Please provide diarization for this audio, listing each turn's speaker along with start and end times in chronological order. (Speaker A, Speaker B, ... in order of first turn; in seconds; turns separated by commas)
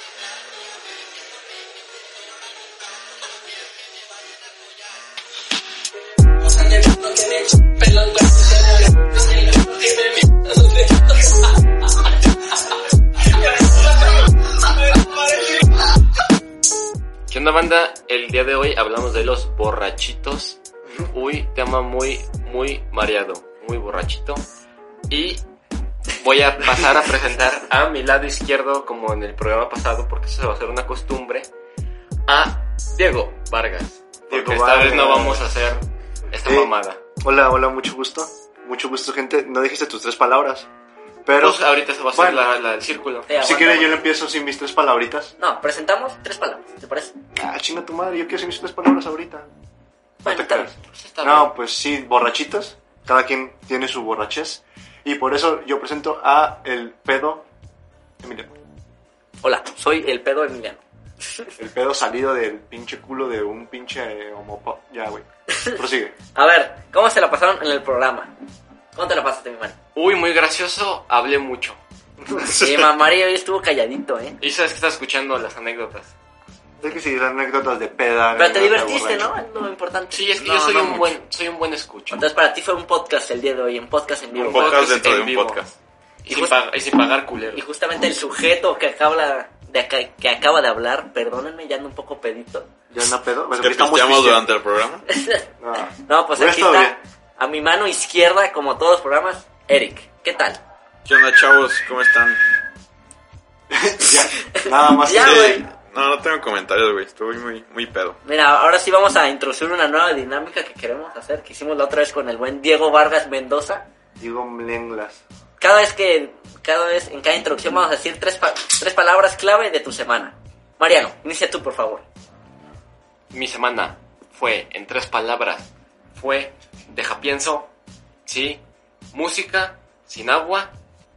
Speaker A: 6.7-11.1, Speaker B: 17.3-24.4, Speaker B: 25.1-25.4, Speaker B: 26.1-31.5, Speaker B: 32.3-37.0, Speaker C: 34.3-35.5, Speaker C: 36.4-40.7, Speaker C: 41.2-41.6, Speaker B: 41.4-43.3, Speaker C: 42.1-42.4, Speaker A: 43.3-44.0, Speaker C: 43.4-45.3, Speaker A: 45.4-47.1, Speaker C: 47.3-49.5, Speaker A: 50.2-50.7, Speaker C: 50.2-57.5, Speaker B: 51.1-51.5, Speaker C: 58.2-58.5, Speaker A: 59.4-60.8, Speaker C: 61.6-66.1, Speaker A: 65.5-65.8, Speaker A: 66.3-68.3, Speaker A: 68.9-69.8, Speaker B: 69.9-71.8, Speaker C: 72.2-72.9, Speaker A: 72.5-74.4, Speaker B: 74.4-76.1, Speaker C: 76.8-79.3, Speaker A: 78.3-80.3, Speaker B: 80.1-82.2, Speaker D: 80.3-81.1, Speaker A: 82.1-84.9, Speaker B: 84.3-85.7, Speaker D: 84.3-85.7, Speaker B: 86.2-87.6, Speaker A: 86.3-86.5, Speaker A: 87.5-92.7, Speaker C: 92.9-94.4, Speaker D: 93.6-95.0, Speaker A: 95.1-100.6, Speaker C: 95.6-97.0, Speaker D: 101.0-102.4, Speaker C: 103.7-105.7, Speaker A: 104.5-105.6, Speaker D: 105.2-108.2, Speaker A: 108.2-113.9, Speaker C: 114.2-115.2, Speaker A: 115.6-122.0, Speaker B: 123.3-127.7, Speaker B: 128.2-128.6, Speaker B: 129.1-130.7